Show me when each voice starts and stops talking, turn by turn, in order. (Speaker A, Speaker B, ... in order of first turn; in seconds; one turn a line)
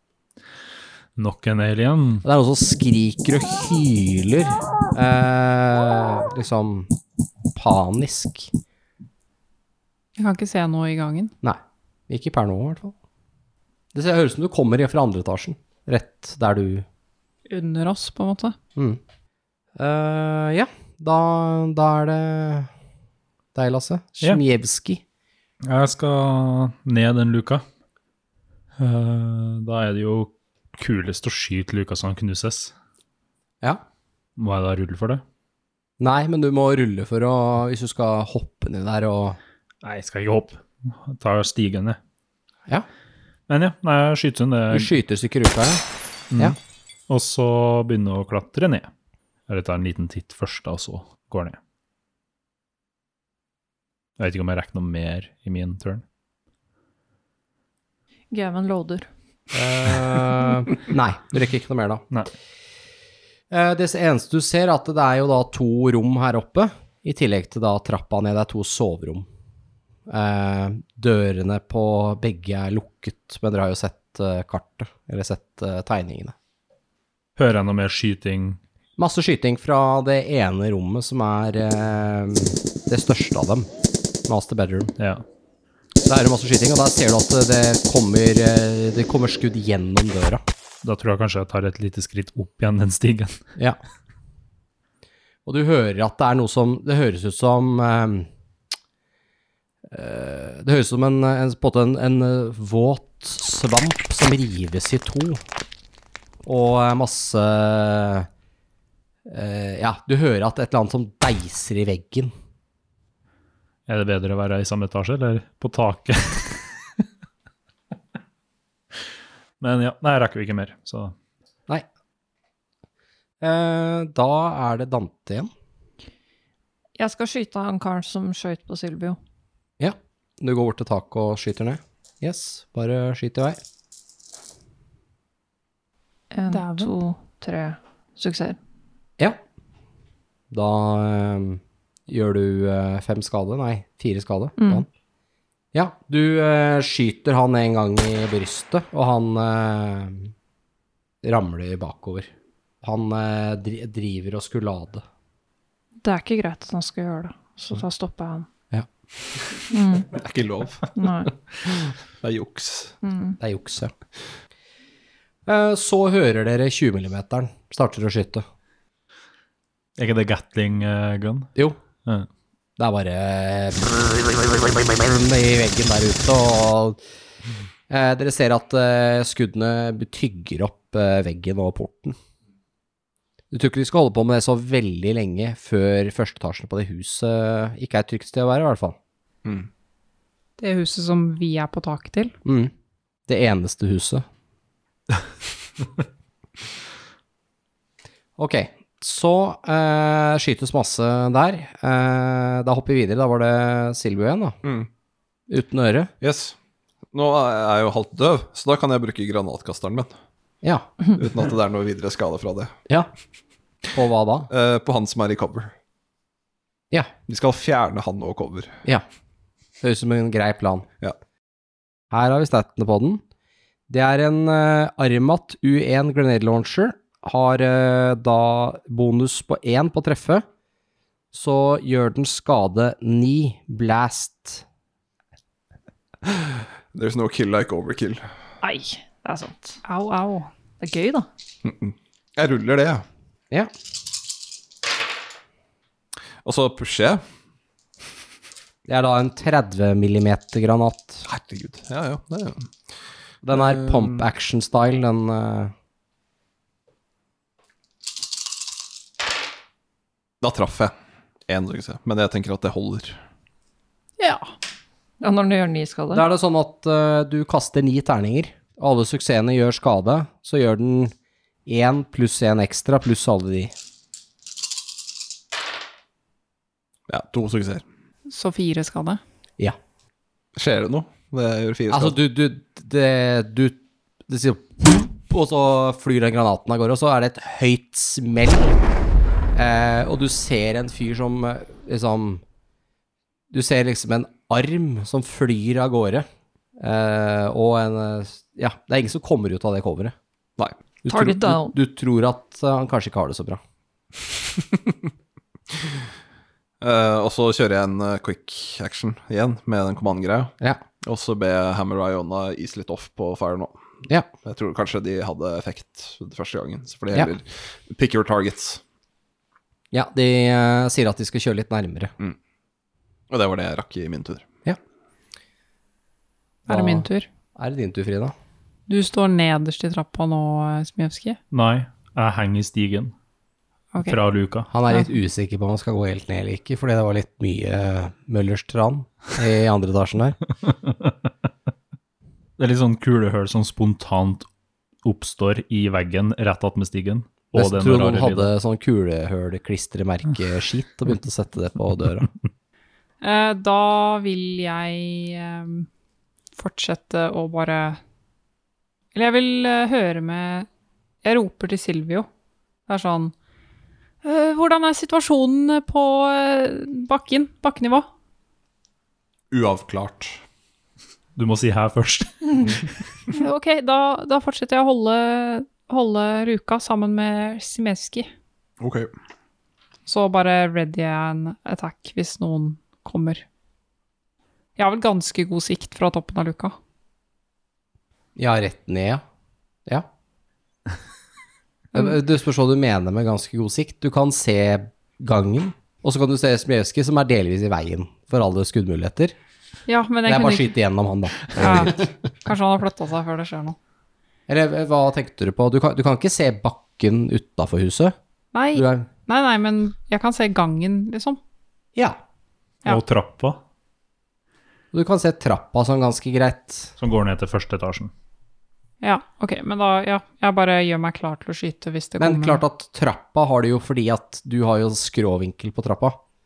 Speaker A: 1.2-2.2
Speaker B: 2.2-6.9
Speaker B: 7.5-8.5
Speaker C: 10.2-11.3
Speaker B: 11.4-12.9
Speaker B: 13.9-16.9
Speaker C: 17.5-18.6
Speaker B: 19.8-22.7
Speaker B: 23.6-25.0
Speaker A: 25.6-27.6
Speaker A: 28.8-32.7
Speaker A: 34.4-35.2
Speaker B: 36.0-39.4
Speaker A: 39.8-42.0
Speaker A: 43.5-44.9
Speaker B: 44.7-45.8
Speaker A: 47.1-48.9
Speaker A: 49.5-51.6
Speaker A: 54.2-56.0
Speaker D: 58.3-59.1
Speaker B: 59.5-62.0
Speaker B: 63.5-69.3
Speaker B: 70.1-76.3
Speaker A: 77.4-78.6
Speaker B: 79.0-83.7
Speaker B: 84.3-84.9
Speaker A: 85.0-85.2
Speaker B: 86.0-90.4
Speaker A: 90.8-93.4
Speaker B: 95.5-98.3
Speaker B: 99.9-105.4
Speaker B: 106.4-108.3
Speaker B: 109.3-112.3
Speaker A: 113.9-116.7
Speaker A: 119.6-121.1
Speaker B: 123.4-125.5
Speaker D: 127.0-129.2
Speaker B: 129.8-133.6
Speaker D: 136.3-138.6
Speaker C: 136.5-136.9
Speaker B: 140.5-144.9
Speaker D: 144.6-144.8
Speaker B: 145.7-150.3
Speaker B: 151.2-152.3
Speaker B: 152.8-155.0
Speaker D: 156.0-158.5
Speaker D: 159.7-160.1
Speaker E: 160.1-162.9
Speaker D: 160.9-161.3
Speaker D: 163.0-163.4
Speaker B: 163.4-163.9
Speaker B: 165.4-168.4
Speaker A: 170.0-171.5
Speaker B: 172.8-177.0
Speaker B: 177.9-182.2
Speaker B: 183.5-189.0
Speaker C: 190.6-192.3
Speaker B: 192.4-192.7
Speaker B: 193.3-194.2
Speaker B: 198.4-204.6
Speaker B: 205.5-206.1
Speaker E: 206.2-206.6
Speaker E: 207.1-210.1
Speaker B: 210.6-210.9
Speaker E: 211.1-212.7
Speaker B: 213.9-214.5
Speaker E: 214.5-215.7
Speaker E: 217.3-218.7
Speaker B: 219.8-220.9
Speaker B: 222.1-223.2
Speaker B: 223.9-230.4
Speaker B: 231.3-234.6
Speaker E: 236.2-238.2
Speaker D: 238.6-239.8
Speaker C: 239.8-240.5
Speaker D: 240.8-241.3
Speaker E: 241.6-243.0
Speaker E: 246.4-247.2
Speaker B: 248.9-251.3
Speaker E: 251.3-252.7
Speaker B: 253.4-255.7
Speaker E: 253.5-254.2
Speaker E: 260.4-260.9
Speaker E: 261.5-263.2
Speaker C: 264.2-264.5
Speaker D: 265.2-266.2
Speaker B: 266.1-271.1
Speaker B: 271.6-273.7
Speaker E: 277.1-277.8
Speaker C: 278.3-279.2
Speaker E: 280.6-282.1
Speaker B: 281.9-288.8
Speaker B: 289.5-292.4
Speaker B: 293.5-296.3
Speaker B: 296.8-300.1
Speaker B: 301.1-303.6
Speaker D: 301.1-301.8
Speaker E: 304.6-304.9
Speaker E: 306.8-310.5
Speaker E: 311.0-313.8
Speaker E: 314.4-318.8
Speaker B: 319.9-322.1
Speaker E: 323.3-324.4
Speaker C: 326.7-327.3
Speaker B: 326.7-328.3
Speaker C: 328.9-331.4
Speaker A: 331.5-333.1
Speaker A: 334.1-334.7
Speaker B: 334.7-340.4
Speaker A: 340.6-341.3
Speaker A: 342.6-344.5
Speaker A: 345.0-348.5
Speaker B: 347.5-352.3
Speaker C: 353.2-355.9
Speaker C: 356.6-358.0
Speaker C: 359.1-360.7
Speaker C: 361.2-362.3
Speaker C: 362.9-363.3
Speaker C: 364.2-368.1
Speaker E: 369.5-370.4
Speaker A: 371.4-372.8
Speaker C: 373.3-378.3
Speaker E: 378.8-379.1
Speaker C: 380.1-383.4
Speaker C: 384.8-386.8
Speaker B: 388.4-389.2
Speaker B: 391.9-399.4
Speaker C: 399.9-400.7
Speaker B: 400.2-402.0
Speaker C: 401.6-403.8
Speaker B: 404.5-408.1
Speaker C: 408.5-411.4
Speaker B: 408.8-409.1
Speaker A: 412.9-413.6
Speaker B: 414.9-416.9
Speaker A: 417.0-418.1
Speaker C: 419.0-422.6
Speaker B: 422.2-426.2